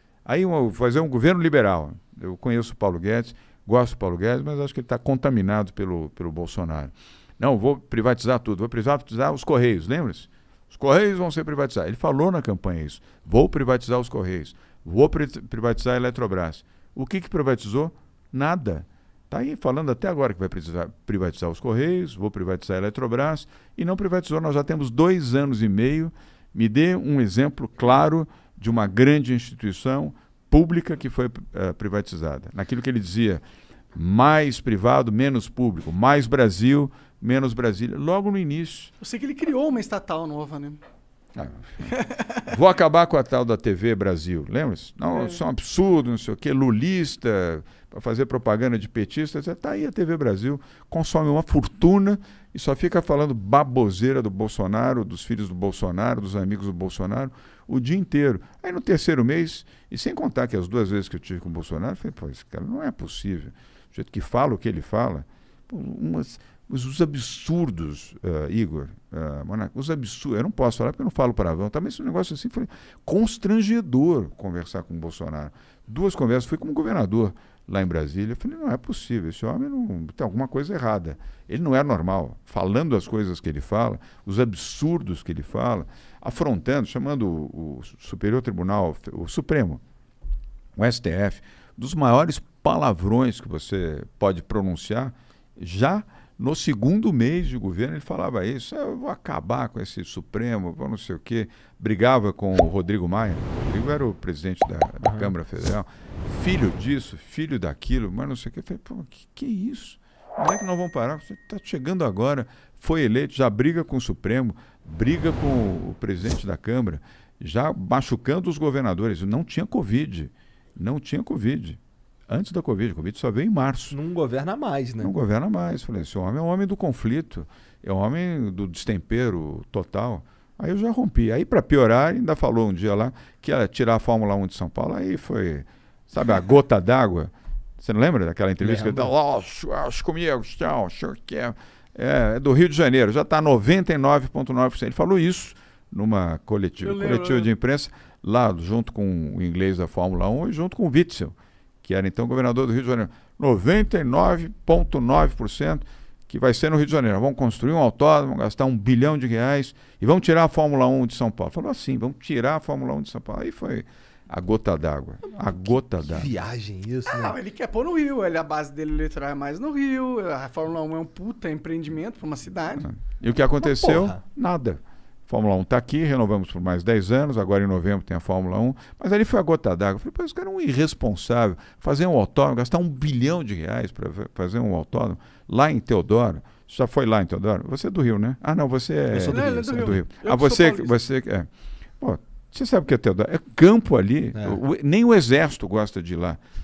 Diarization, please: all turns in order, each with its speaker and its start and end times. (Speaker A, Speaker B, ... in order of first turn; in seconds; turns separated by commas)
Speaker A: 0.2-33.4, Speaker A: 33.9-38.9, Speaker B: 39.0-40.8, Speaker A: 41.3-89.8, Speaker B: 41.8-42.4, Speaker B: 45.1-45.4, Speaker A: 90.8-124.0, Speaker C: 105.0-105.3, Speaker C: 123.9-125.1, Speaker A: 125.0-166.3, Speaker C: 138.6-139.1, Speaker B: 146.8-147.5, Speaker C: 166.0-167.4, Speaker B: 167.1-172.9, Speaker A: 172.8-191.5, Speaker C: 173.6-174.2, Speaker C: 189.1-190.0, Speaker B: 189.2-191.0, Speaker A: 192.0-196.4, Speaker C: 194.3-194.6